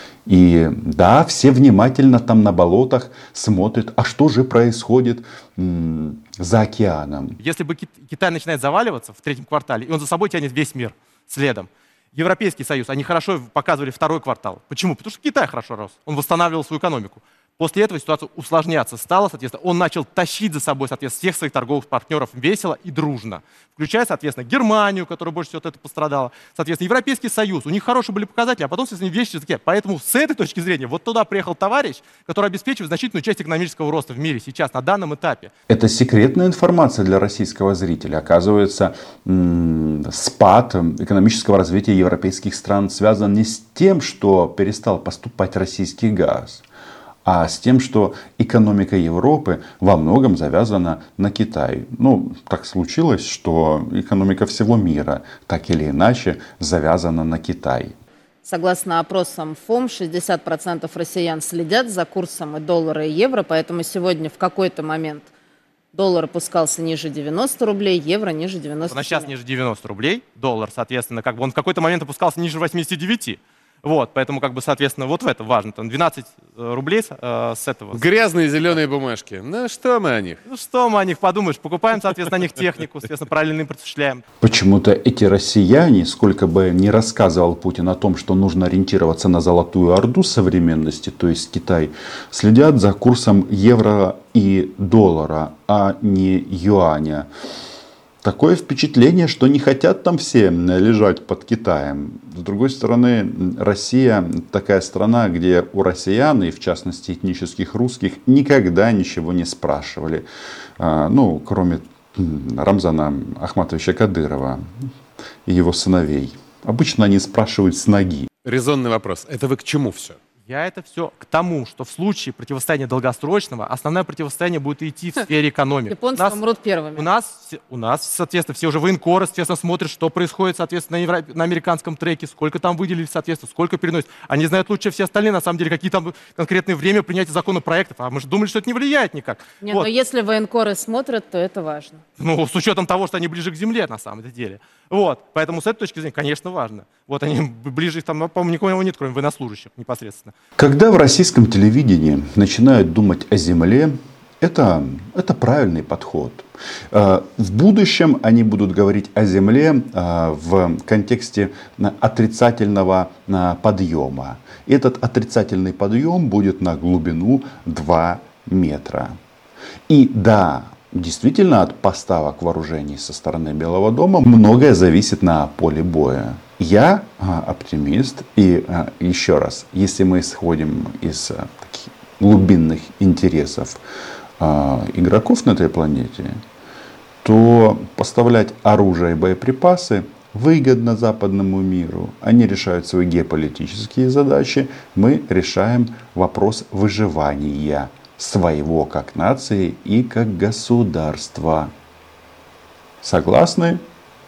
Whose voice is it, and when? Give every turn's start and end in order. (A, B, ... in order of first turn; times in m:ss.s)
0:00.2-0:07.4 A
0:07.4-0:35.5 B
0:35.7-0:46.6 A
0:47.2-0:58.0 A
0:58.4-1:05.3 C
1:05.9-1:09.3 C
1:08.9-1:18.1 B
1:17.9-1:20.4 D
1:20.5-1:24.2 B
1:24.4-1:37.3 A
1:38.2-1:50.2 A
1:50.8-1:54.6 A
1:55.5-1:58.3 A
1:58.4-2:00.2 D
2:00.5-2:06.4 B
2:05.9-2:07.0 C
2:07.0-2:19.9 B
2:19.6-2:22.0 C
2:22.2-2:30.3 B
2:30.6-2:49.2 A
2:49.9-3:03.8 A
3:04.4-3:06.4 A
3:07.2-3:21.7 A
3:23.0-3:23.8 A